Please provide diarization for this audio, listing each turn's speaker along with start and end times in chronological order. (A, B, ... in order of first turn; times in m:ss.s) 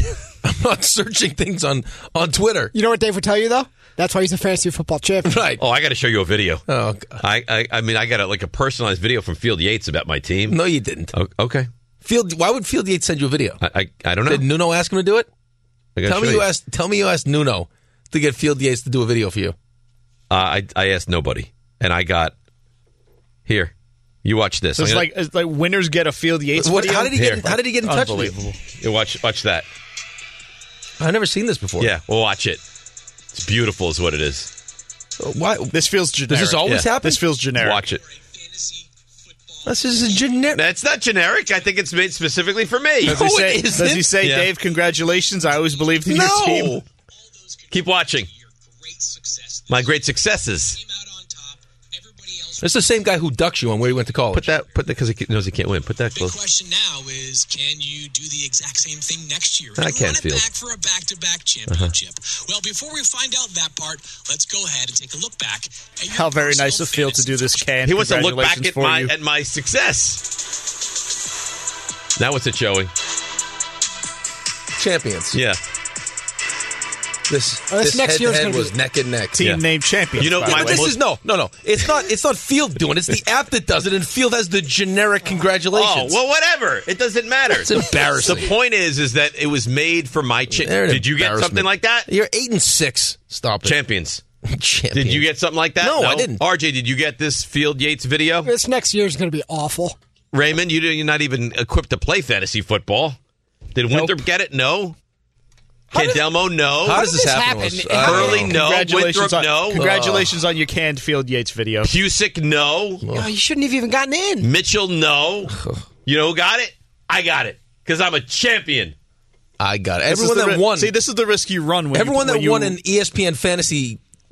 0:00.4-0:02.7 A
0:02.7-0:05.3 B
0:05.2-0:05.6 A
0:05.6-0:06.6 C
0:06.7-0:07.2 A
0:07.2-0:10.6 C
0:10.5-0:11.1 A
0:11.1-0:11.7 C
0:12.0-0:13.6 A
0:13.6-0:14.4 C
0:14.2-0:15.3 A
0:16.0-0:16.5 C
0:16.0-0:19.6 A
0:20.3-0:22.3 C
0:23.4-0:23.7 C
0:24.2-0:25.1 C
0:24.8-0:28.6 D
0:26.5-0:28.3 A
0:27.1-0:27.4 C
0:28.8-0:29.6 C
0:31.0-0:31.9 A
0:31.8-0:32.6 C
0:33.3-0:34.5 C
0:35.2-0:37.2 A
0:35.7-0:37.9 D
0:36.6-0:36.9 C
0:37.6-0:38.0 C
0:39.6-0:40.6 A
0:40.5-0:43.2 C
0:43.0-0:44.2 A
0:43.0-0:46.8 D
0:44.2-0:44.5 C
0:46.0-0:46.8 A
0:47.7-0:48.3 C
0:49.0-0:49.7 E
0:49.7-0:50.8 C
0:52.6-0:54.6 A
0:54.3-0:56.4 C
0:56.2-1:07.6 E
0:59.8-1:00.5 C
1:01.7-1:01.9 C
1:06.1-1:09.1 D
1:07.8-1:10.3 C
1:12.2-1:12.9 C
1:14.8-1:15.4 A
1:15.3-1:15.6 C
1:17.3-1:19.5 A
1:17.7-1:18.7 B
1:19.3-1:20.9 D
1:20.2-1:21.0 C
1:20.4-1:26.2 A
1:25.7-1:32.1 C
1:27.5-1:28.5 A
1:30.5-1:33.8 A
1:33.6-1:34.2 C
1:34.4-1:35.3 A
1:34.9-1:38.5 C
1:35.8-1:36.4 A
1:38.4-1:40.0 B
1:40.3-1:43.2 C
1:43.7-1:45.0 C
1:45.9-1:46.2 B
1:45.9-1:47.0 C
1:46.8-1:48.5 A
1:46.8-1:48.4 B
1:47.9-1:49.9 C
1:48.2-1:51.9 D
1:49.7-1:50.4 A
1:51.8-1:53.0 C
1:53.1-1:54.5 B
1:54.4-1:55.5 C
1:56.0-1:58.9 C
1:59.6-2:01.0 A
2:00.1-2:02.8 D
2:01.9-2:04.0 A